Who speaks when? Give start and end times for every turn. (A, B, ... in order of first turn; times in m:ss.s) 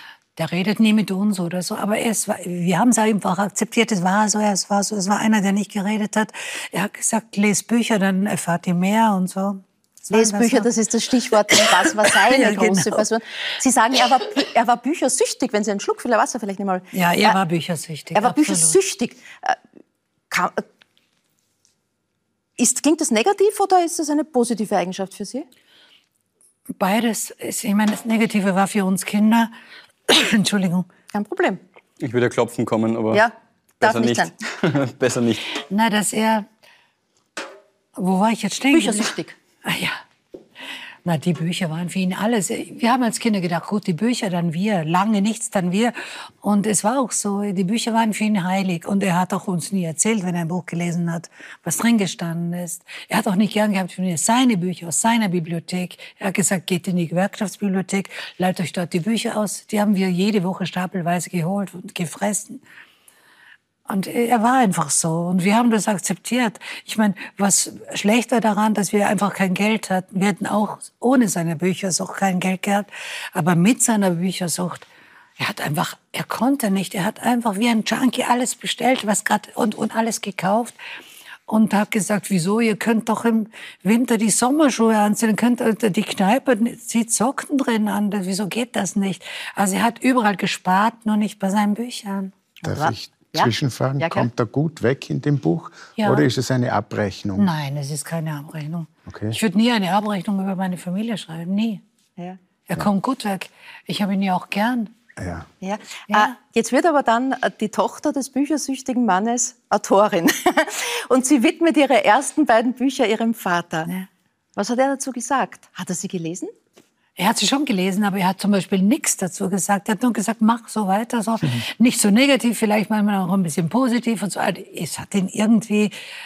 0:00.4-0:10.7 A
0:10.1-0:17.4 B
0:11.6-0:13.0 A
0:16.9-0:18.8 A
0:18.1-0:19.6 B
0:20.3-0:20.6 B
0:22.6-0:25.4 B
0:26.8-0:29.5 A
0:30.1-0:30.9 A
0:31.1-0:31.6 B
0:32.0-0:33.2 C
0:33.1-0:34.3 B
0:33.8-0:35.4 C
0:35.7-0:36.4 A
0:38.0-0:39.1 A
0:38.7-0:39.4 B
0:39.6-0:40.0 A
0:41.0-1:02.6 A
1:03.9-1:14.8 A
1:15.4-1:20.8 A
1:21.5-1:32.3 A
1:32.6-1:34.3 B
1:32.6-1:37.5 D
1:36.0-1:36.2 A
1:37.4-1:41.8 A
1:39.1-1:39.4 D
1:42.7-1:44.9 A
1:45.2-1:45.5 D
1:45.6-1:53.9 B
1:54.6-1:56.5 B
1:57.2-2:05.9 A